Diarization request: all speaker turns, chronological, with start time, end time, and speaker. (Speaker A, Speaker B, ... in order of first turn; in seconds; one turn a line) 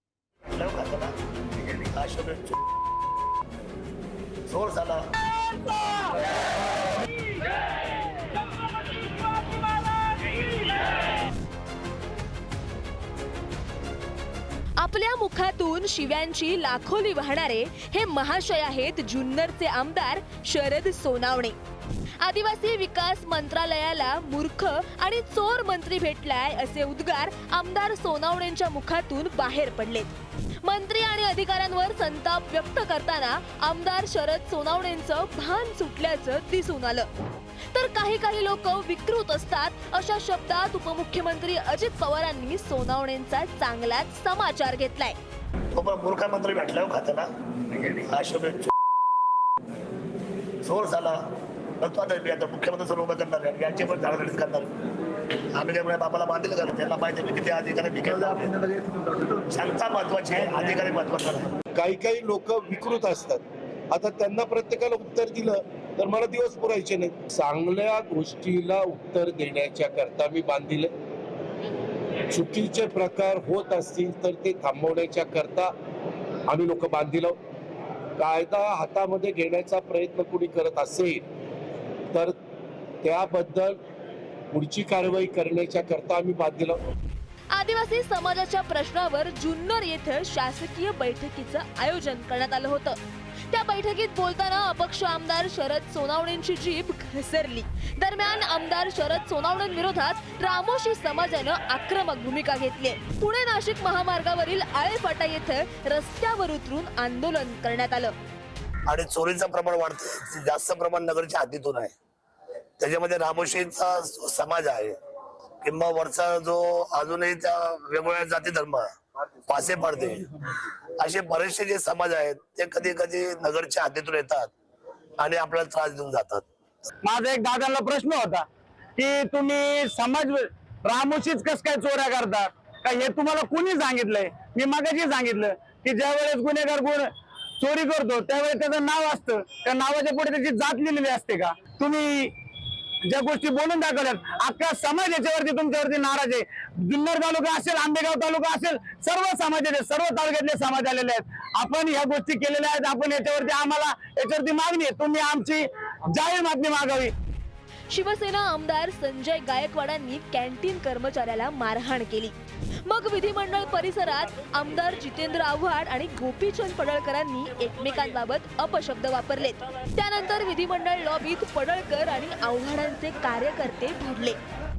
Speaker A: 0.5-1.1
Speaker A: 1.8-2.6
Speaker A: 4.5-5.1
Speaker B: 14.8-21.6
Speaker B: 22.2-30.1
Speaker B: 30.6-37.1
Speaker B: 37.7-45.2
Speaker A: 45.7-48.7
Speaker A: 50.6-51.2
Speaker A: 51.8-54.7
Speaker A: 55.6-61.5
Speaker C: 61.8-70.9
Speaker C: 72.3-75.7
Speaker C: 76.5-77.4
Speaker C: 78.2-81.2
Speaker C: 83.0-83.8
Speaker C: 84.5-86.8
Speaker B: 87.5-93.0
Speaker B: 93.5-108.2
Speaker A: 108.9-111.9
Speaker A: 112.8-115.0
Speaker A: 115.6-118.9
Speaker A: 119.5-120.3
Speaker A: 121.0-124.5
Speaker A: 125.2-126.5
Speaker D: 127.0-142.3
Speaker D: 143.0-157.1
Speaker B: 157.9-162.3
Speaker B: 162.9-174.4